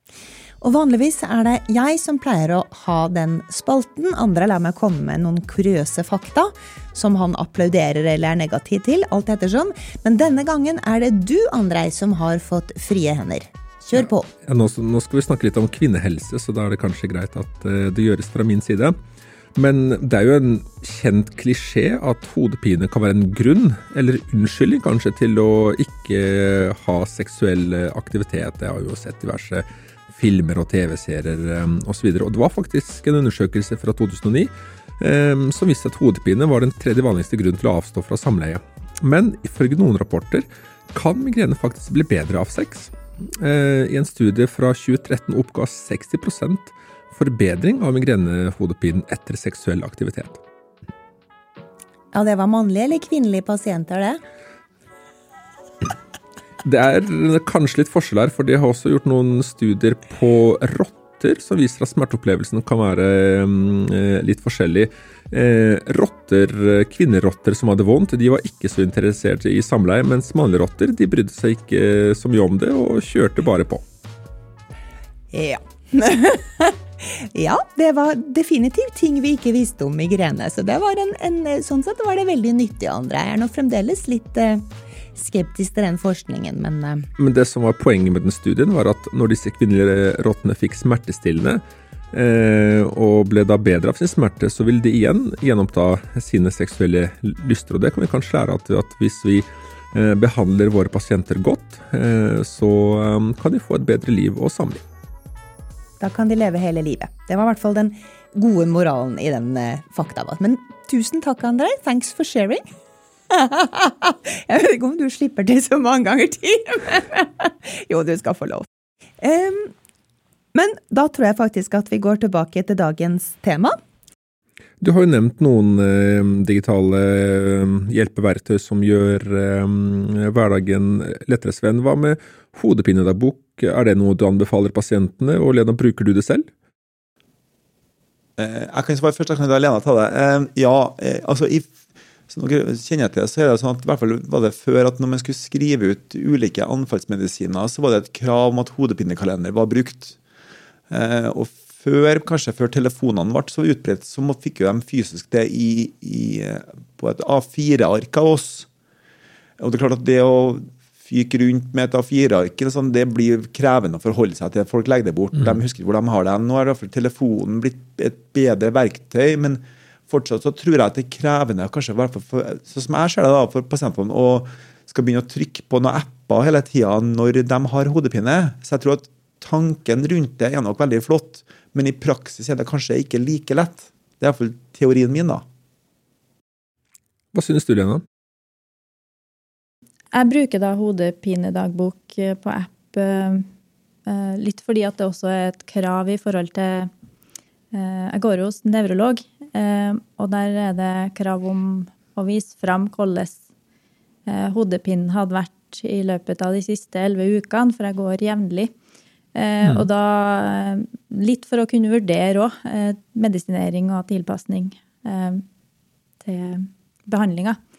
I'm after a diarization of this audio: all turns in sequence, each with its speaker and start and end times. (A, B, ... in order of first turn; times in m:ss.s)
0:00.6-0:14.3 A
0:14.4-0:19.0 B
0:19.6-0:50.4 B
0:52.1-0:54.2 A
0:56.6-1:13.8 B
1:15.3-1:27.1 A
1:27.2-1:31.6 B
1:32.1-1:44.8 B
1:46.0-1:52.6 A
1:53.3-1:58.7 A
1:59.2-1:59.7 A
2:00.5-2:03.8 A
2:04.8-2:16.5 B
2:18.4-2:21.7 C
2:22.3-2:30.2 C
2:30.9-2:38.7 C
2:39.6-3:05.4 C
3:07.3-3:08.0 B
3:10.1-3:13.5 D
3:14.1-3:16.9 D
3:17.7-3:23.4 D
3:24.3-3:28.7 D
3:29.4-3:35.4 D
3:36.2-3:37.6 D